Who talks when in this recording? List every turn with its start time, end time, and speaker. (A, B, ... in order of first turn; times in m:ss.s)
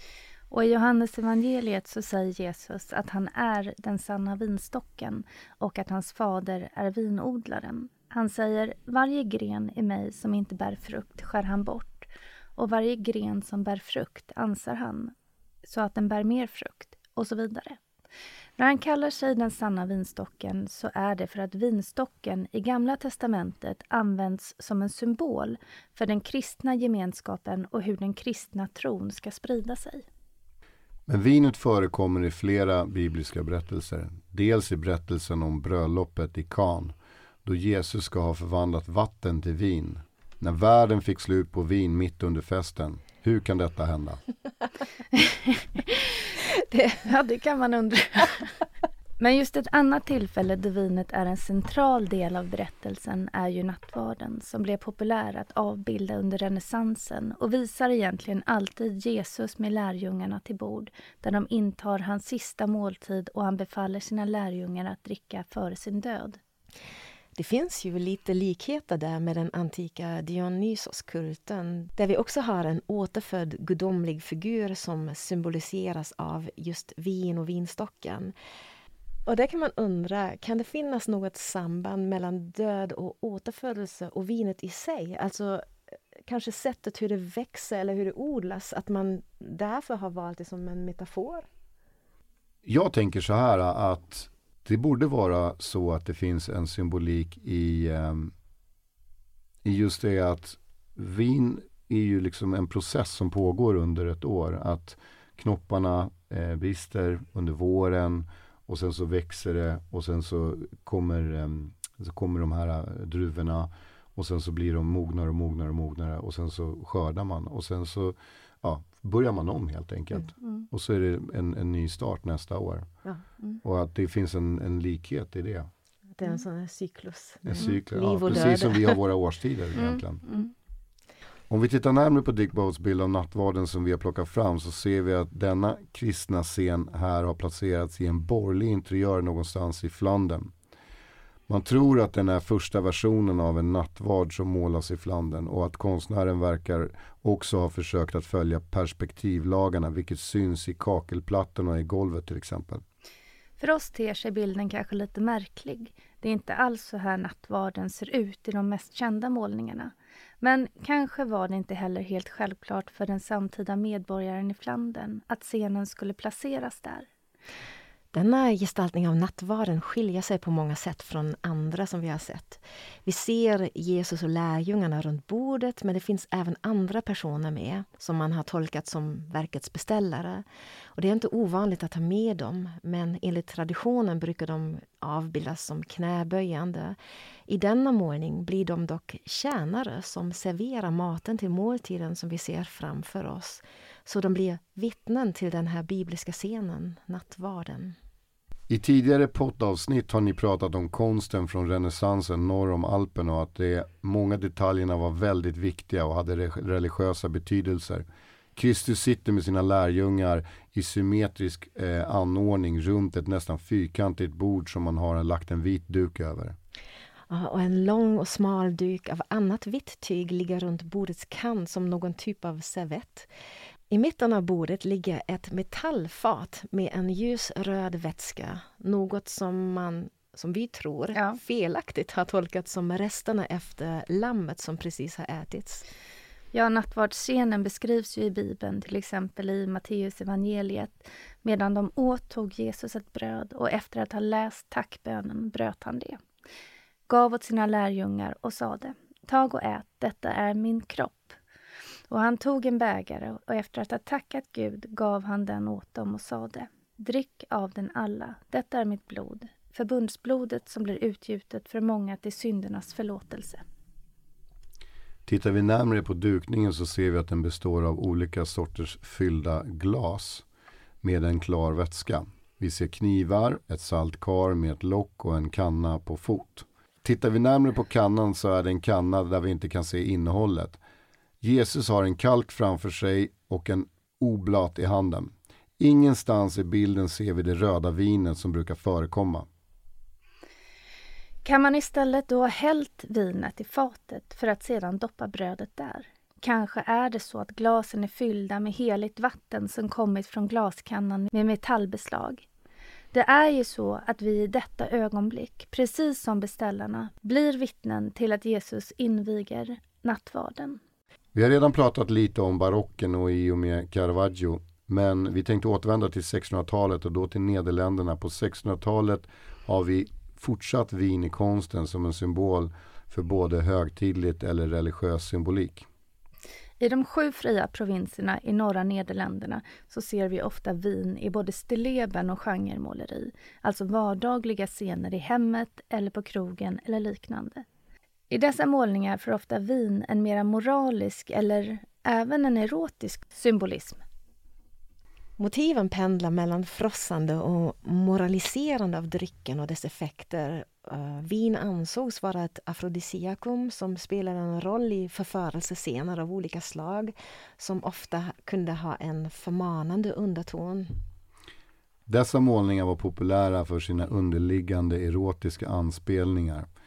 0:00.5-0:17.8 A
0:18.6-0:30.0 A
0:31.1-0:36.9 B
0:37.4-0:44.2 B
0:45.1-0:46.2 A
0:46.6-0:47.0 C
0:47.0-0:48.6 A
0:49.2-1:06.4 A
1:07.3-1:18.3 C
1:19.2-1:25.6 C
1:26.2-1:31.5 C
1:32.6-1:38.3 B
1:39.6-2:02.9 B
2:03.6-2:05.7 B
2:06.2-2:09.0 C
2:07.4-2:10.2 B
2:09.8-2:10.5 A
2:11.5-2:20.5 B
2:21.5-2:32.8 B
2:33.6-2:47.1 A
2:48.1-3:07.0 C
3:07.5-3:18.0 C
3:18.7-3:36.6 B
3:37.3-3:43.3 C
3:43.9-3:55.8 C
3:51.1-3:51.4 A
3:56.5-4:06.2 A
4:07.1-4:11.4 A
4:12.1-4:23.6 A
4:25.2-4:30.4 B
4:31.0-4:40.8 B
4:41.4-4:49.5 B
4:51.4-5:02.4 A
5:03.1-5:10.8 A
5:11.3-5:25.9 B
5:26.8-5:37.6 A
5:38.3-5:44.0 A
5:45.4-6:01.0 C
6:02.1-6:06.7 B